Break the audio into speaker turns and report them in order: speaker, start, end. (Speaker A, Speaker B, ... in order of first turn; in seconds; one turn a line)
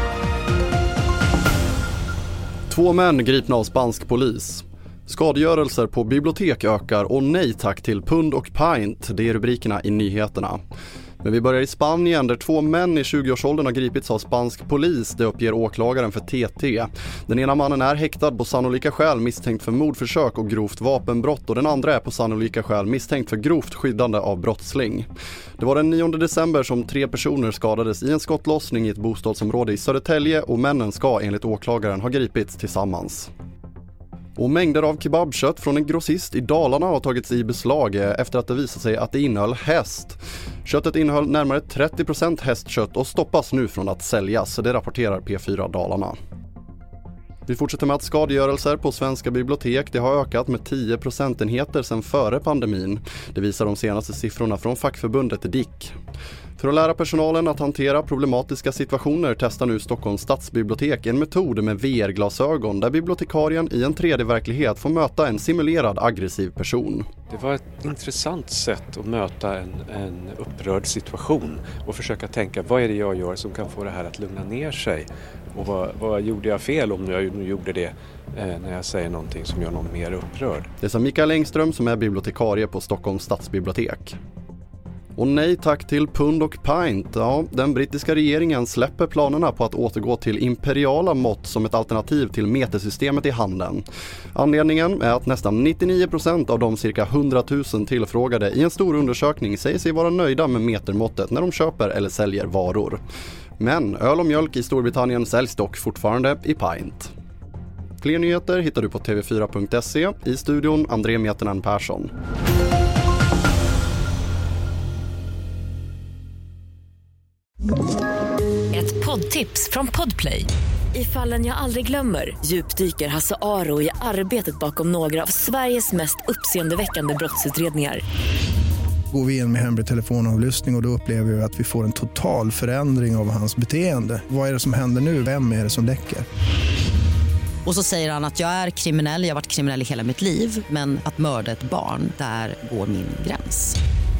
Speaker A: 2.7-10.6
Speaker A: 11.2-25.1
Speaker A: 25.6-33.3
Speaker A: 34.4-46.1
Speaker A: 47.5-55.9
Speaker A: 56.6-67.1
Speaker B: 67.3-80.7
Speaker A: 80.8-84.2
Speaker A: 85.2-103.0
Speaker A: 103.6-107.1
Speaker A: 108.0-112.1
Speaker C: 118.7-128.0
Speaker D: 129.1-136.2
Speaker E: 137.6-143.8